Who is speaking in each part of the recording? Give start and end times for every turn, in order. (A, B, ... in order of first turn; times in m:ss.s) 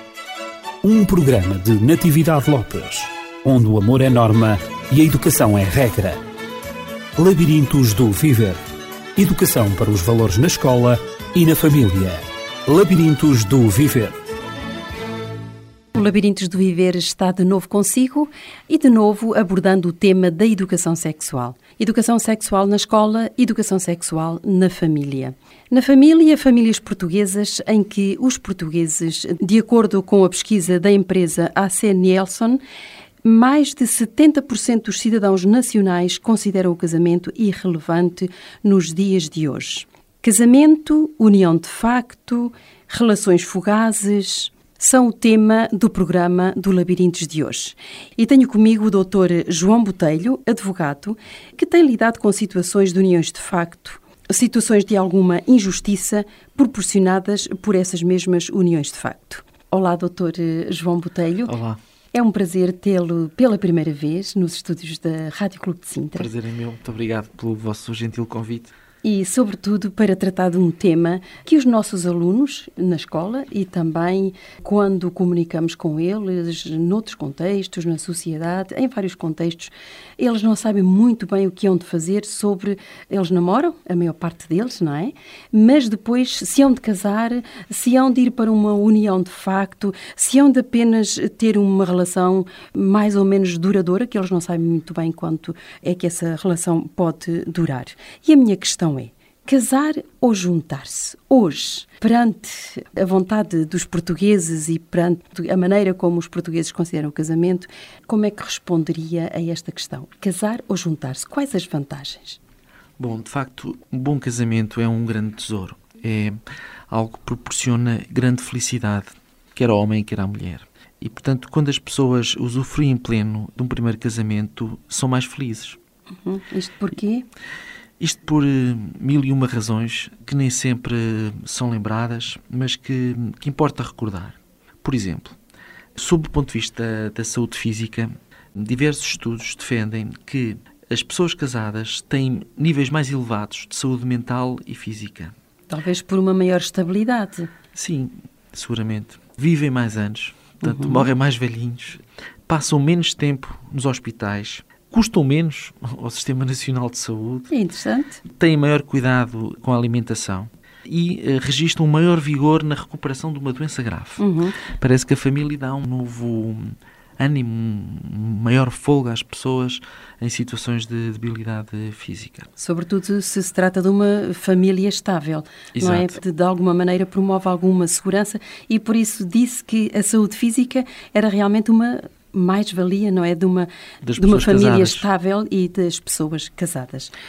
0:00.8-0:06.2 A
0:07.2-0:08.6 A
0:09.2-0:14.2 A
0:15.9-0:32.6 B
0:33.2-1:01.5 B
1:01.5-1:01.8 C
1:02.1-1:06.3 B
1:06.2-1:08.7 C
1:09.0-1:52.4 B
1:53.0-1:56.4 C
1:56.9-2:05.8 C
2:06.2-2:07.3 B
2:08.0-2:15.4 C
2:16.0-2:25.4 C
2:25.7-2:27.5 B
2:27.8-2:37.5 C
2:30.6-2:31.1 B
2:37.5-2:38.2 B
2:38.2-2:52.5 C
2:44.2-2:44.6 B
2:52.6-3:07.1 B
2:55.8-2:56.2 C
3:04.0-3:05.0 C